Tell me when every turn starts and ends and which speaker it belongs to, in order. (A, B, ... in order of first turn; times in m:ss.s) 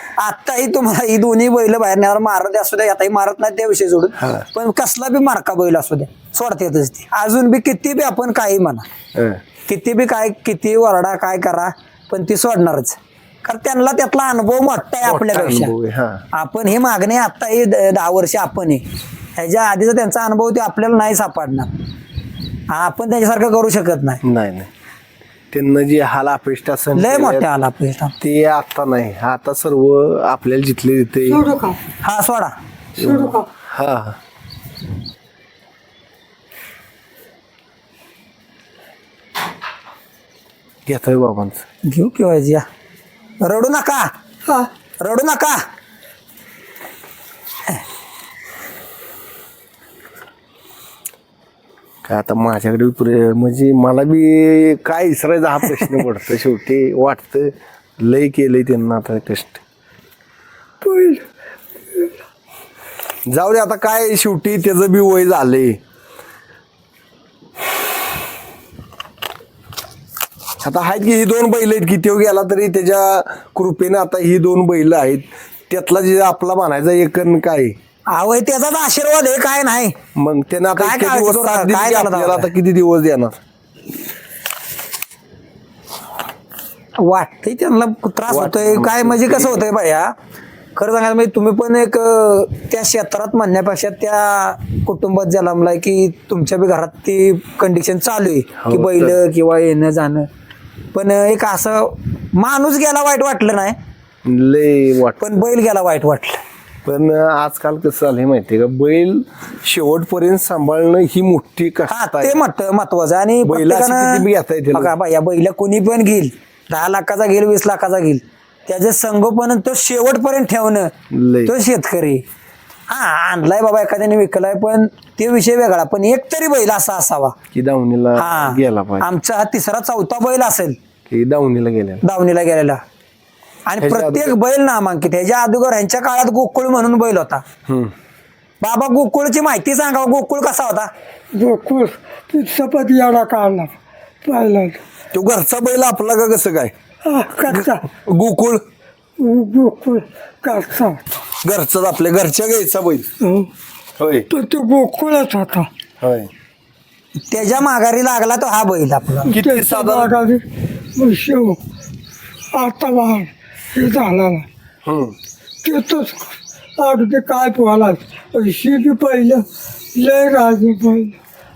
0:00.2-0:08.9 A
0:04.2-0:04.4 B
0:09.1-0:09.4 B
0:09.6-0:15.7 A
0:15.0-0:16.2 B
0:16.3-0:21.9 A
0:22.7-0:24.2 A
0:24.2-0:24.7 B
0:25.5-0:27.4 B
0:26.9-0:28.1 A
0:28.2-0:31.5 B
0:31.3-0:31.8 C
0:32.0-0:32.6 A
0:33.0-0:34.2 B
0:33.0-0:33.5 C
0:40.8-0:41.6 B
0:41.8-0:42.6 A
0:43.4-0:44.1 A
0:45.0-0:45.7 A
0:52.0-0:59.6 B
1:00.8-1:01.2 C
1:03.2-1:05.8 B
1:10.6-1:17.8 B
1:18.1-1:20.0 A
1:20.1-1:23.4 B
1:20.8-1:22.5 A
1:27.0-1:30.1 A
1:28.3-1:29.6 B
1:30.7-1:40.3 A
1:38.6-1:39.2 B
1:40.9-1:43.8 A
1:44.2-1:45.4 B
1:45.2-1:46.4 A
1:46.8-1:52.4 B
1:51.9-2:00.9 A
1:53.4-1:54.9 B
2:01.1-2:01.5 B
2:01.4-2:02.2 A
2:02.9-2:07.4 A
2:07.5-2:09.1 B
2:08.2-2:10.8 A
2:11.1-2:12.0 B
2:12.0-2:12.8 A
2:13.6-2:17.4 A
2:13.8-2:14.3 B
2:17.7-2:17.9 B
2:18.6-2:20.9 A
2:21.3-2:24.8 C
2:25.1-2:26.7 B
2:27.0-2:27.9 C
2:27.5-2:28.6 B
2:29.2-2:31.0 C
2:31.4-2:33.1 B
2:33.2-2:33.5 C
2:34.0-2:34.3 B
2:34.3-2:35.7 C
2:36.0-2:36.3 B
2:37.2-2:39.3 A
2:39.2-2:41.6 C
2:39.3-2:40.1 B
2:42.5-2:44.5 C
2:44.8-2:45.1 B
2:45.6-2:51.2 C